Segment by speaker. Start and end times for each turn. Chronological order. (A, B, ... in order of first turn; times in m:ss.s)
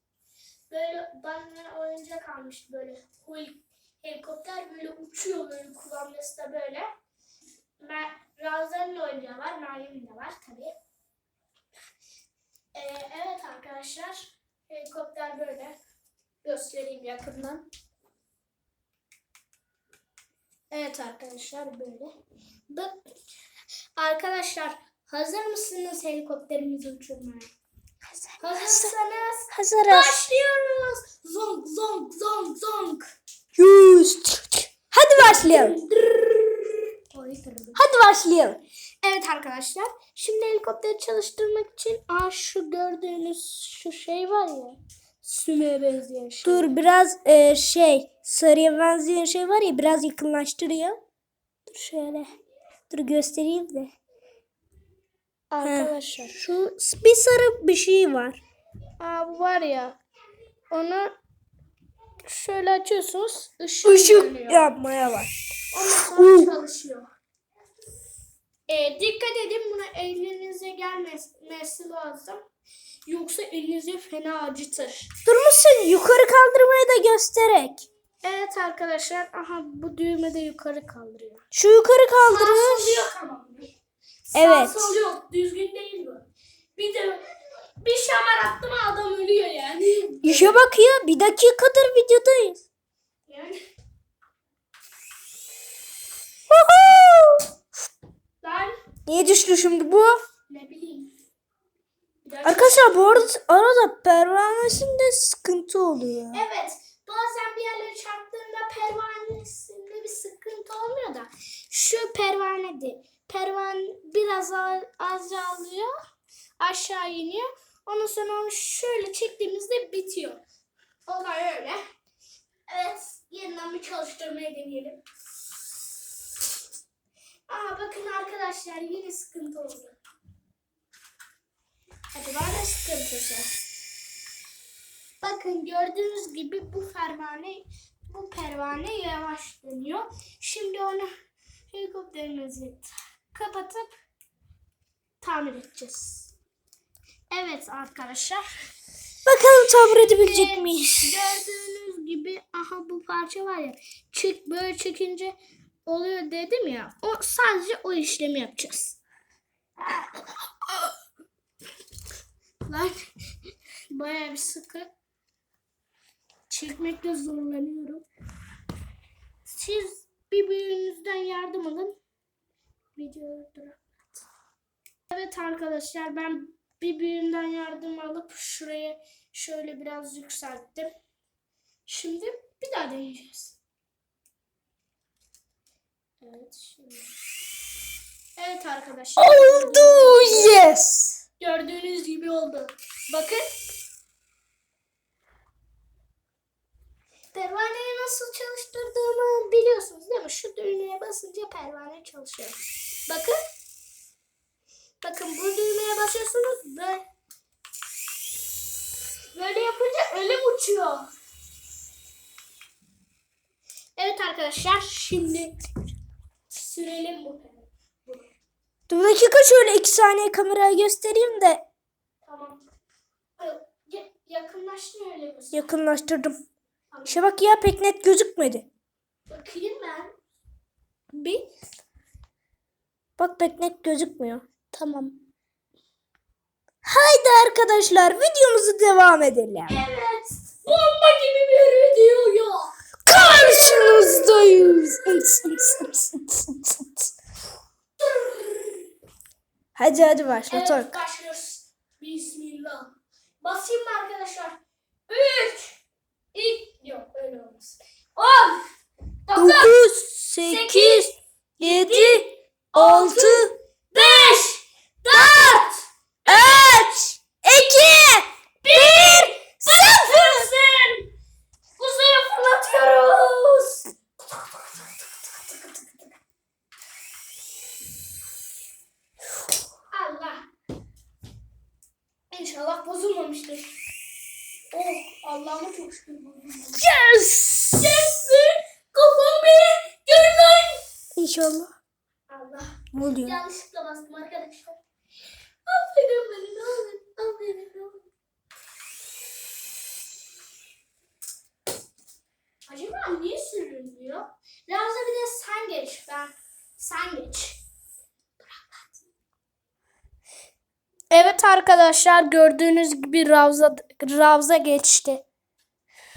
0:00.7-0:06.9 A
0:07.8-0:10.7 A
0:12.7-0:15.8 A
0:16.4-0:17.7 A
0:20.7-0:22.1 A
0:22.7-0:23.0 A
0:24.0-0:27.5 A
0:28.1-0:28.9 B
0:28.4-0:33.0 A
0:29.5-0:30.2 B
0:33.6-0:35.8 B
0:35.2-0:37.8 A
0:37.7-0:38.6 B
0:39.0-0:46.7 A
0:46.4-0:51.0 B
0:51.6-0:52.3 A
0:52.9-0:53.9 B
0:55.5-0:56.4 A
0:55.6-0:58.4 B
0:59.0-1:00.0 A
1:00.7-1:01.1 A
1:02.2-1:04.7 A
1:03.8-1:05.3 B
1:05.7-1:07.1 A
1:05.9-1:06.5 B
1:08.7-1:12.4 A
1:13.0-1:15.1 A
1:15.2-1:17.9 B
1:18.2-1:21.4 A
1:21.5-1:23.1 B
1:22.3-1:23.7 A
1:24.3-1:26.2 A
1:24.3-1:24.9 B
1:26.8-1:27.2 A
1:27.8-1:30.6 A
1:30.2-1:32.6 B
1:33.3-1:33.6 A
1:36.5-1:37.5 B
1:38.4-1:38.7 A
1:39.1-1:40.1 B
1:40.5-1:41.1 A
1:42.2-1:43.3 A
1:42.4-1:46.4 B
1:46.3-1:55.9 A
1:56.6-2:00.4 A
2:01.0-2:01.8 A
2:02.7-2:05.0 A
2:07.5-2:10.0 A
2:12.1-2:13.5 A
2:15.2-2:21.1 A
2:21.7-2:23.9 A
2:25.2-2:26.3 A
2:27.3-2:28.4 A
2:29.2-2:31.4 B
2:30.2-2:35.3 A
2:35.8-2:39.0 A
2:40.7-2:40.9 A
2:42.6-2:43.1 A
2:43.9-2:44.9 A
2:46.5-2:48.0 A
2:49.4-2:51.9 A
2:52.9-2:53.9 A
2:55.1-3:00.9 A
3:01.9-3:03.6 A
3:06.2-3:07.1 A
3:08.4-3:10.5 A
3:09.2-3:11.2 B
3:11.4-3:13.5 A
3:17.3-3:23.4 A
3:25.0-3:27.0 A
3:29.3-3:31.1 A
3:34.0-3:35.6 A
3:36.5-3:38.3 A
3:38.9-3:41.6 B
3:42.2-3:42.6 A
3:43.4-3:45.7 A
3:45.5-3:46.4 B
3:46.9-3:47.3 A
3:47.0-3:48.7 B
3:49.3-3:50.1 A
3:51.1-3:51.5 A
3:53.2-3:54.4 B
3:54.7-3:55.2 A
3:56.8-3:59.8 B
3:59.7-4:02.7 A
4:03.0-4:07.1 B
4:08.0-4:08.8 A
4:09.8-4:10.9 B
4:10.5-4:15.7 A
4:16.3-4:18.6 A
4:19.2-4:19.8 A
4:19.4-4:22.2 B
4:20.4-4:26.7 A
4:22.7-4:24.3 B
4:25.1-4:25.6 B
4:26.2-4:30.5 B
4:28.6-4:31.1 A
4:31.8-4:33.9 A
4:35.3-4:36.1 A
4:39.9-4:40.5 A
4:42.3-4:43.7 A
4:44.7-4:46.9 A
4:46.8-4:47.8 B
4:47.7-4:50.8 A
4:51.2-4:51.7 B
4:52.3-4:54.8 A
4:52.9-4:53.3 B
4:55.6-4:58.1 A
5:02.7-5:07.6 A
5:08.4-5:09.0 A
5:11.1-5:15.2 A